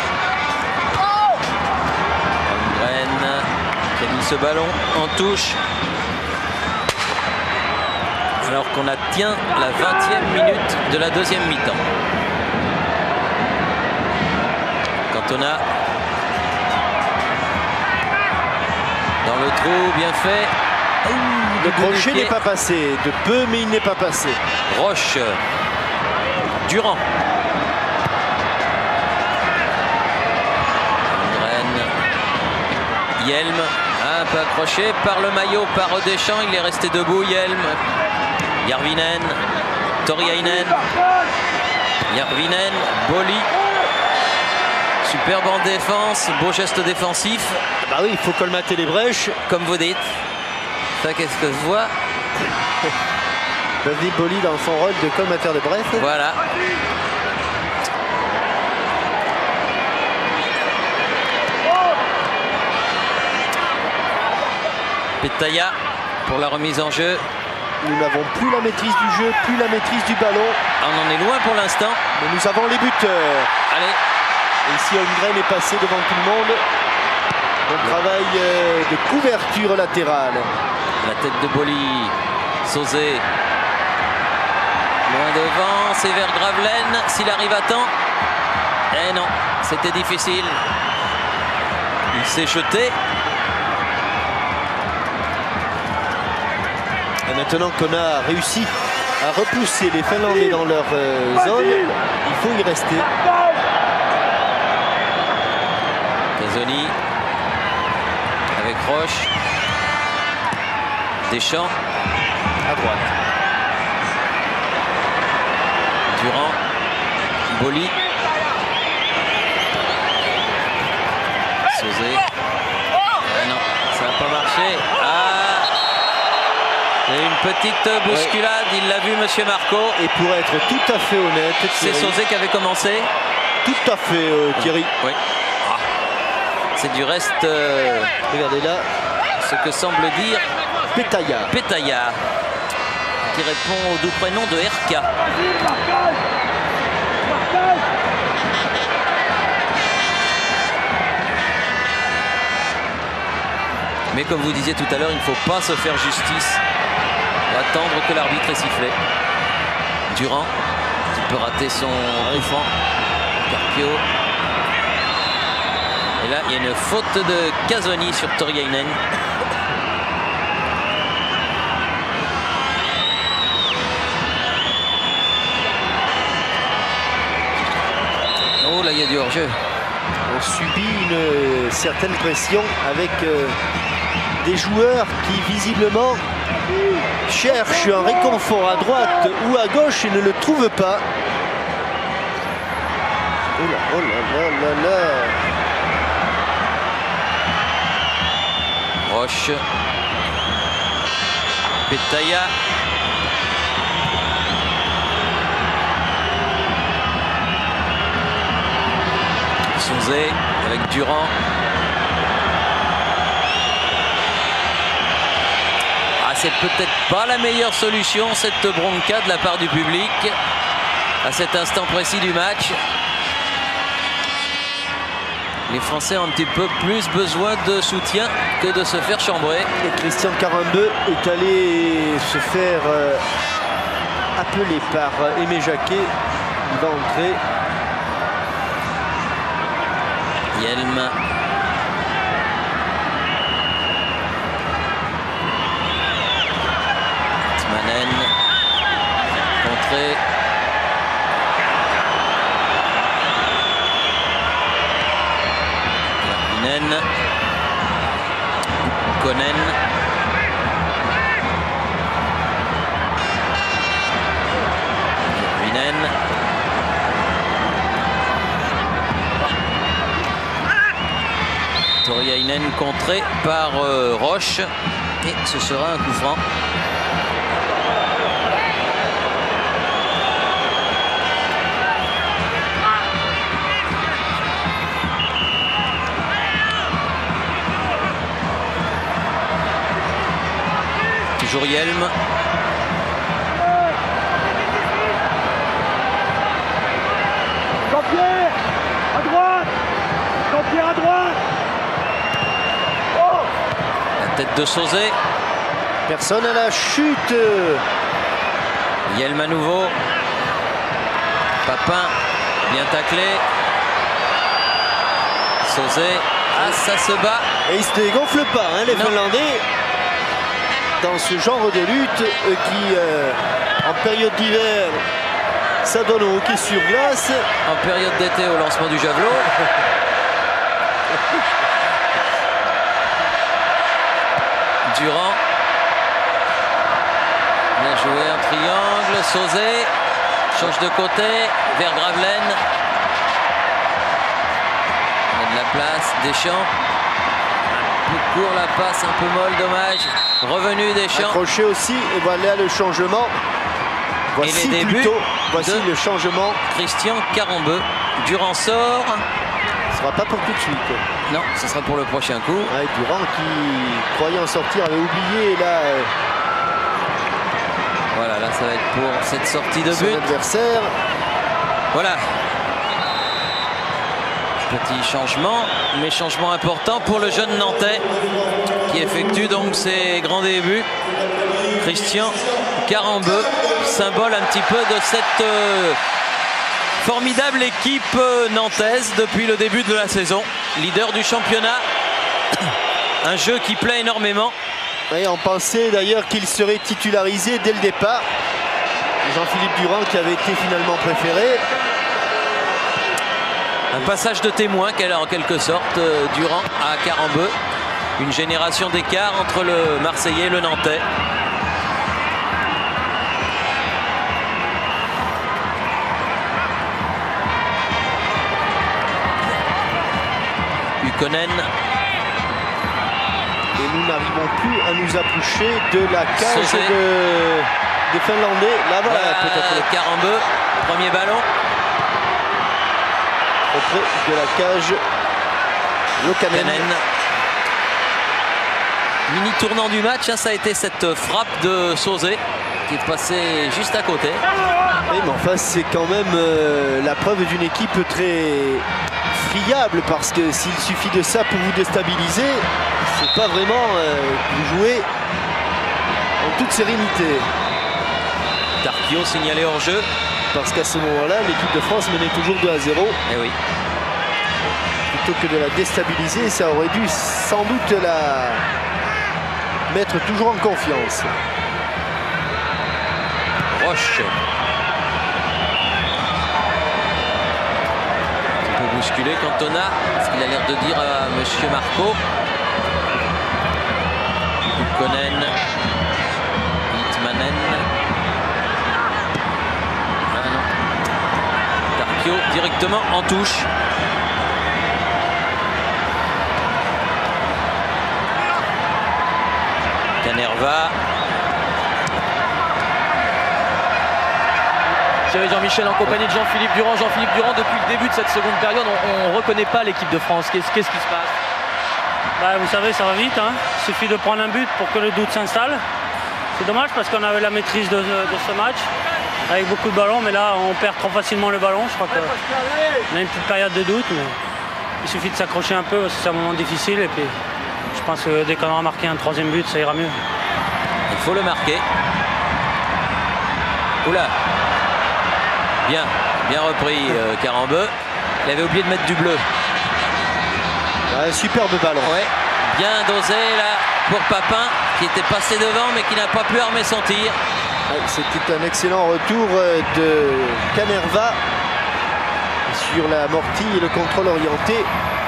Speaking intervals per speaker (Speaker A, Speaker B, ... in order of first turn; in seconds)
Speaker A: 2.5-5.6, 8.4-11.8, 15.1-15.6, 19.2-20.5, 21.1-22.4, 24.7-25.4, 26.6-27.0, 31.1-31.9, 33.2-37.8, 38.6-39.4, 40.0-40.9, 42.1-43.5, 45.0-47.6, 49.5-50.1, 51.0-51.9, 55.9-56.4, 65.2-67.2, 70.8-72.0, 73.7-74.0, 81.0-83.2, 85.0-87.9, 88.9-90.6, 92.1-92.9, 106.4-106.9, 108.5-109.3, 111.3-111.7, 116.1-116.6, 117.5-117.9, 121.7-122.2, 123.2-125.7, 127.1-130.0, 131.8-133.1, 134.6-135.8, 136.8-138.1, 139.4-140.4, 141.5-142.2, 143.2-145.1, 154.1-156.6, 157.5-158.9, 160.1-160.5, 161.1-162.7, 163.4-164.0, 166.2-169.0, 178.6-179.6, 199.0-199.6, 201.9-202.5, 209.7-211.3, 216.2-220.3, 221.2-222.8, 225.7-229.7, 240.5-241.1, 247.6-248.3, 249.6-250.2, 256.2-257.0, 259.0-259.8, 265.3-266.2, 272.0-274.7, 275.2-276.4, 291.4-292.1, 304.2-305.1, 309.1-310.0, 311.6-312.1, 312.6-313.4, 315.6-317.4, 318.9-319.1, 327.6-329.5, 334.9-335.4, 337.8-339.9, 340.5-342.6, 345.3-346.7, 347.7-351.4, 354.4-355.9, 356.7-359.2, 361.3-362.7, 368.1-370.3, 371.9-372.2, 374.7-378.1, 378.8-380.9, 381.7-386.0, 387.0-391.8, 393.2-394.5, 403.9-407.5, 408.2-411.0, 421.0-421.7, 426.4-426.9, 429.0-431.4, 436.3-437.0, 439.3-444.4, 458.8-460.1, 463.3-463.6, 473.7-474.3, 478.6-482.2, 484.7-485.5, 486.9-487.9, 490.3-490.7, 491.9-493.7, 500.2-500.9, 531.1-531.8, 534.0-534.3, 535.8-539.4, 542.0-547.4
Speaker B: 21.6-24.4, 47.8-49.4, 53.8-56.1, 67.8-70.6, 72.1-73.5, 74.6-76.6, 77.6-80.5, 97.2-103.1, 112.7-113.1, 128.1-128.3, 130.0-132.2, 133.6-134.9, 138.3-138.9, 140.9-141.5, 180.2-183.6, 184.4-186.2, 187.2-191.0, 193.6-195.5, 229.8-233.2, 234.3-237.4, 306.1-307.8, 317.6-319.6, 321.0-325.1, 325.8-327.4, 351.1-353.3, 354.4-356.6, 359.9-361.0, 362.7-366.1, 369.9-370.9, 395.1-398.3, 399.2-401.6, 423.8-429.9, 433.7-435.0, 436.2-436.9, 445.1-455.1, 456.4-457.5, 460.5-463.2, 465.1-468.6, 469.9-471.3, 541.1-542.1, 547.9-551.4, 552.6-554.9
Speaker C: 505.3-511.3
Speaker D: 512.4-515.8, 516.5-518.9, 519.5-522.4, 523.1-524.3, 525.0-527.3, 527.9-530.2